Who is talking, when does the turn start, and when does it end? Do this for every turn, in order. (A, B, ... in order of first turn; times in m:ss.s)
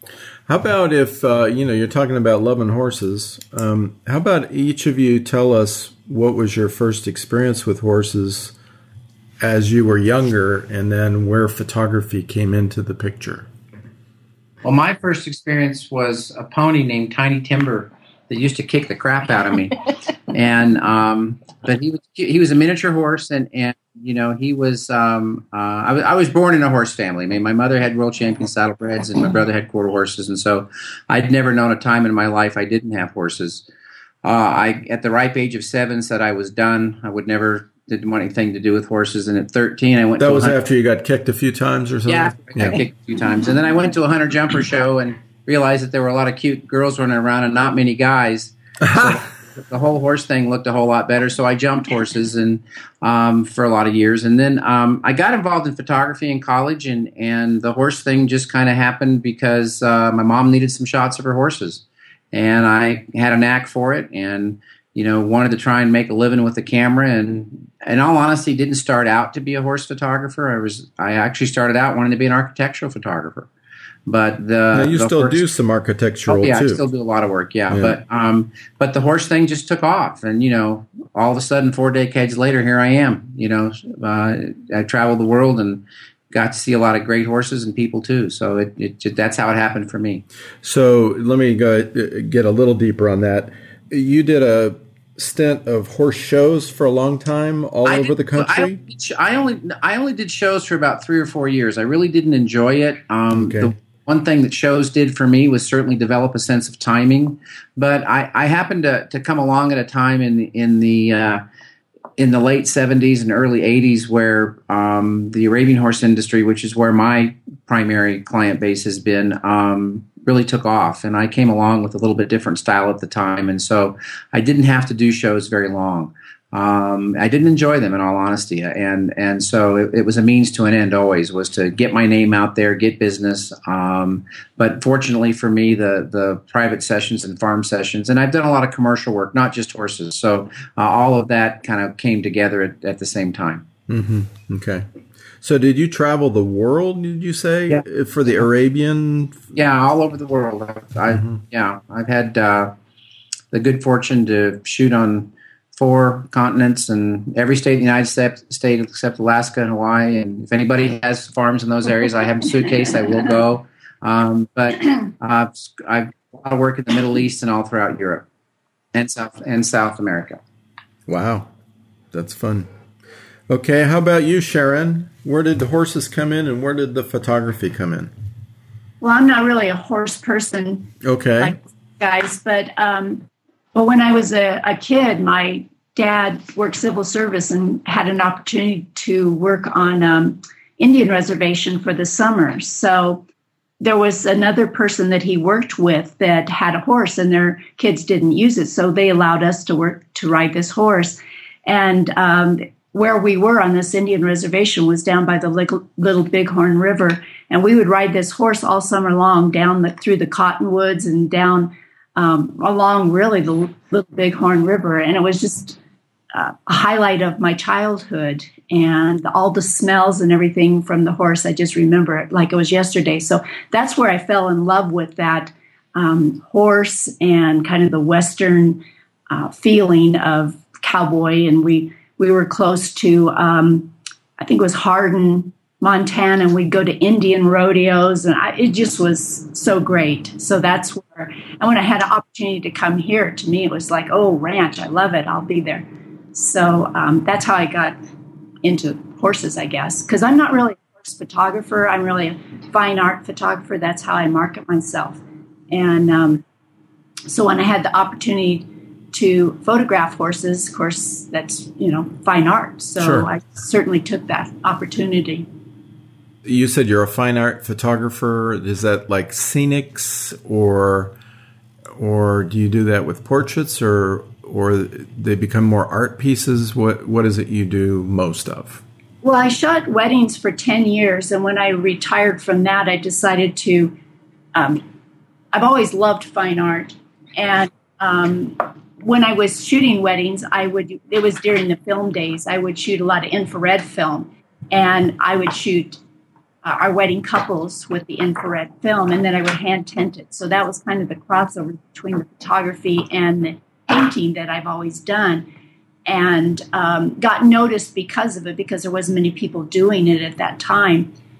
0:00.5-0:08.5 A
0:09.4-0:13.5 A
0:14.6-0:33.6 B
0:34.2-0:40.6 B
0:40.2-0:42.8 A
0:42.0-1:13.5 B
0:48.8-0:49.2 A
1:14.1-1:15.4 B
1:14.7-1:16.8 A
1:16.3-1:30.2 B
1:17.7-1:18.0 A
1:30.6-1:38.8 A
1:37.8-1:51.4 B
1:43.3-1:43.7 A
1:52.2-2:23.6 B
2:23.9-2:24.9 A
2:25.4-2:29.4 A
2:29.5-2:32.7 B
2:31.1-2:31.4 A
2:33.5-2:48.2 B
2:48.9-2:50.4 B
2:51.1-2:51.5 A
2:52.1-2:52.7 A
2:53.5-2:58.1 A
2:59.0-3:13.2 C
3:01.0-3:01.6 A
3:13.8-3:35.8 C
3:36.3-4:08.0 C
4:08.6-4:16.4 C
4:17.3-4:25.5 C
4:23.0-4:23.3 A
4:26.4-4:31.2 A
4:31.9-4:38.8 A
4:39.2-4:43.9 C
4:44.5-4:44.8 C
4:45.5-4:56.0 C
4:56.6-5:05.5 C
5:06.0-5:11.1 C